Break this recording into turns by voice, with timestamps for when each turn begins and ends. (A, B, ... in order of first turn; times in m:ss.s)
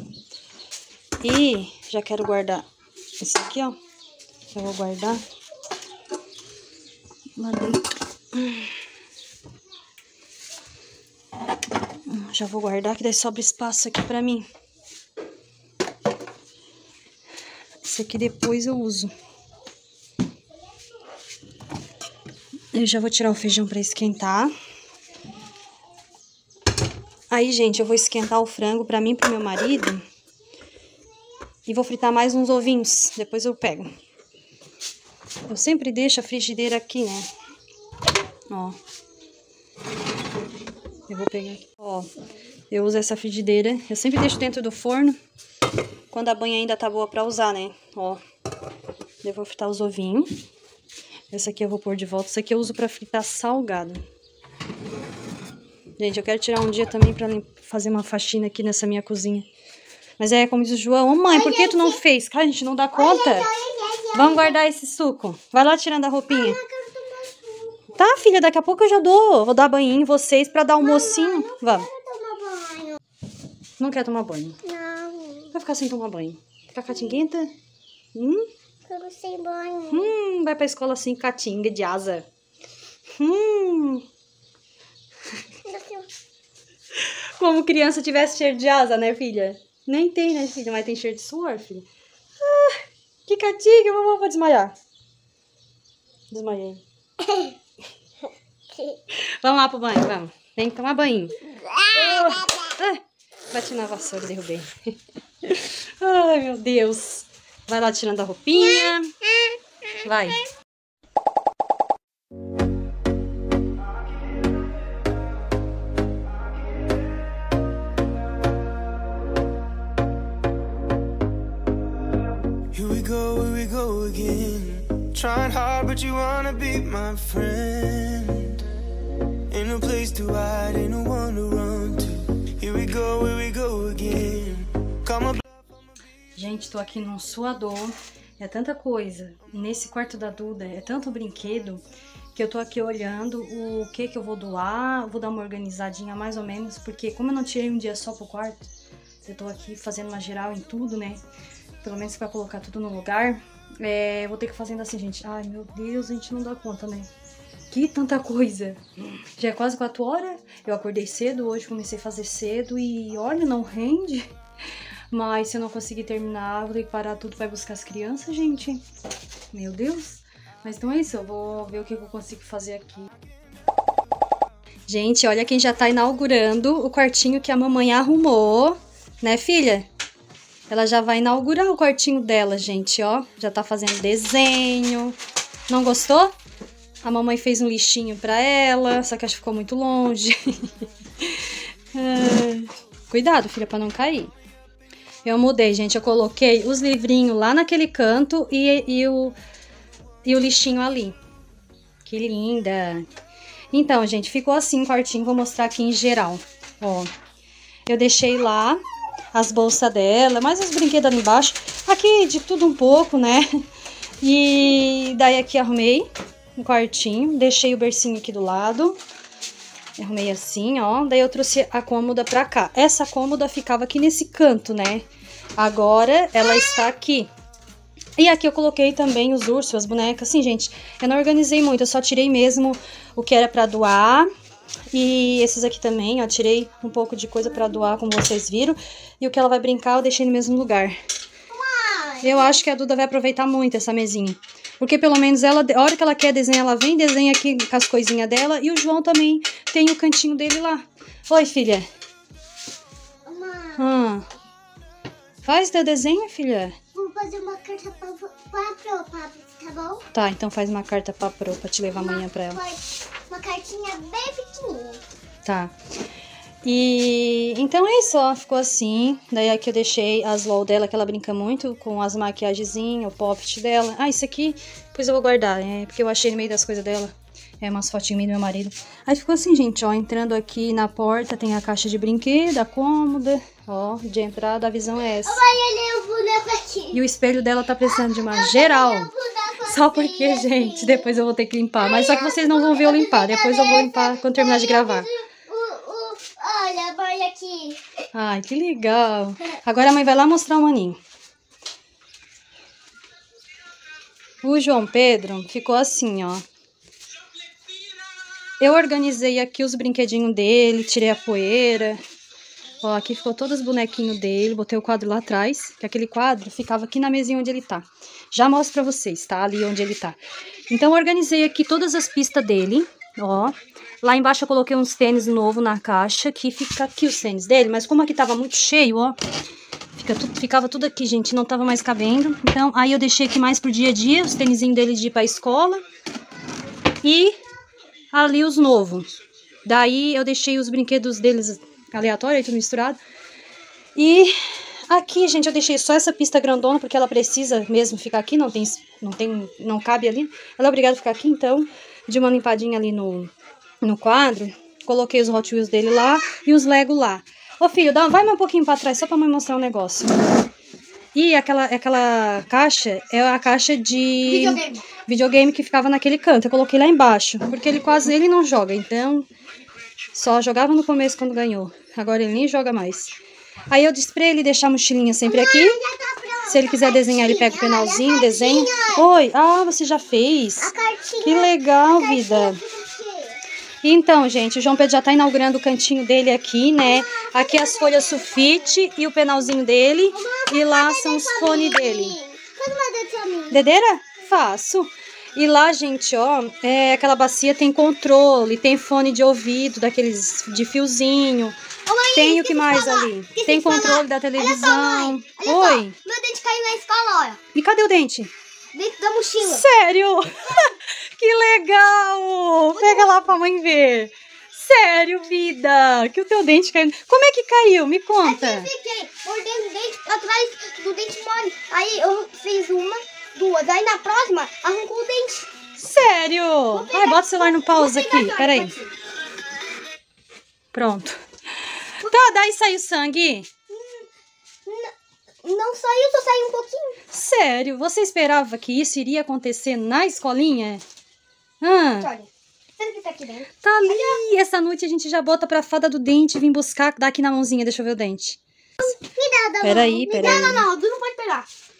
0:01.2-0:02.6 A
0:03.2-0:03.8 A
0:04.5-0:05.2 A
0:07.4-0:07.8 A
0:08.3-0:08.7 A
0:12.1-0:14.5 A
0:17.8-0:19.1 A
0:22.7-0:24.5 A
0:27.3-0:30.0 A
0:31.6-0:33.9 A
0:35.5-0:37.3 A
0:38.5-0:38.8 A
0:41.1-0:42.1 A
0:42.7-0:45.2 A
0:46.1-0:48.2 A
0:49.2-0:50.3 A
0:51.3-0:54.0 A
0:56.0-0:59.5 A
1:00.2-1:03.5 A
1:01.3-1:02.0 B
1:02.9-1:04.5 B
1:04.1-1:06.6 A
1:06.3-1:07.7 B
1:08.0-1:11.9 A
1:10.8-1:13.0 B
1:13.8-1:14.6 A
1:14.6-1:15.5 B
1:15.5-1:17.5 A
1:18.1-1:18.4 A
1:18.9-1:20.1 B
1:19.9-1:22.2 A
1:23.2-1:24.0 A
1:25.6-1:26.1 B
1:27.4-1:31.9 A
1:32.4-1:34.7 A
1:36.3-1:36.8 A
1:39.4-1:44.7 A
1:45.4-1:49.2 A
1:50.0-1:50.4 A
2:02.7-2:08.6 C
2:09.5-2:15.4 C
2:16.4-2:21.8 A
2:22.3-2:28.7 A
2:29.2-2:31.2 A
2:31.8-2:37.1 A
2:37.7-2:38.8 A
2:39.4-2:44.3 A
2:45.1-2:48.8 A
2:49.5-2:53.1 A
2:54.9-2:59.9 A
3:00.7-3:05.2 A
3:05.7-3:06.3 A
3:07.0-3:14.3 A
3:15.2-3:19.4 A
3:20.2-3:21.2 A
3:22.0-3:23.0 A
3:23.7-3:27.1 A
3:27.9-3:28.8 A
3:29.3-3:33.5 A
3:34.2-3:39.0 A
3:40.0-3:45.0 A
3:45.6-3:47.3 A
3:48.2-3:54.3 A
3:54.9-4:01.0 A
4:01.5-4:01.9 B
4:01.9-4:02.5 D
4:02.2-4:11.8 A
4:13.2-4:13.8 B
4:13.8-4:14.2 A
4:15.4-4:16.8 A
4:16.9-4:20.0 B
4:20.1-4:22.6 A
4:22.0-4:22.8 B
4:23.3-4:25.0 B
4:23.3-4:23.7 D
4:25.4-4:25.7 A
4:26.6-4:45.4 A
4:45.2-4:46.9 D
4:46.9-4:49.1 A
4:47.9-4:51.1 D
4:49.6-4:55.1 A
4:51.8-4:57.8 D
4:58.1-5:01.0 A
5:04.4-5:06.4 A
5:08.6-5:12.0 A
5:12.8-5:20.2 A
5:20.7-5:29.2 A
5:29.9-5:35.8 A
5:37.0-5:37.4 A
5:38.1-5:39.1 A
5:39.6-5:43.0 A
5:43.9-5:53.3 A
5:53.8-6:00.2 A
6:01.1-6:09.3 A
6:04.2-6:04.8 D
6:10.1-6:13.1 A
6:13.7-6:15.8 A
6:15.2-6:19.0 B
6:16.4-6:22.6 A
6:20.6-6:21.5 B
6:22.0-6:23.4 B
6:23.8-6:32.2 A
6:27.4-6:28.5 B
6:30.1-6:31.7 D
6:30.5-6:33.6 B
6:33.5-6:41.6 A
6:41.8-6:47.4 D
6:42.1-6:45.9 A
6:47.5-6:48.3 A
6:48.7-6:49.6 D
6:49.4-6:50.6 A
6:51.2-6:58.7 A
6:52.7-6:53.3 D
6:58.2-7:05.5 D
7:05.8-7:08.7 A
7:06.7-7:08.9 D
7:10.7-7:11.1 A
7:12.0-7:12.4 D
7:12.0-7:13.5 A
7:13.7-7:14.1 D
7:14.6-7:14.9 D
7:15.4-7:17.0 D
7:17.1-7:20.8 A
7:21.6-7:22.1 A
7:22.0-7:24.2 D
7:23.6-7:28.4 A
7:28.8-7:31.5 D
7:29.2-7:29.7 B
7:29.6-7:30.7 A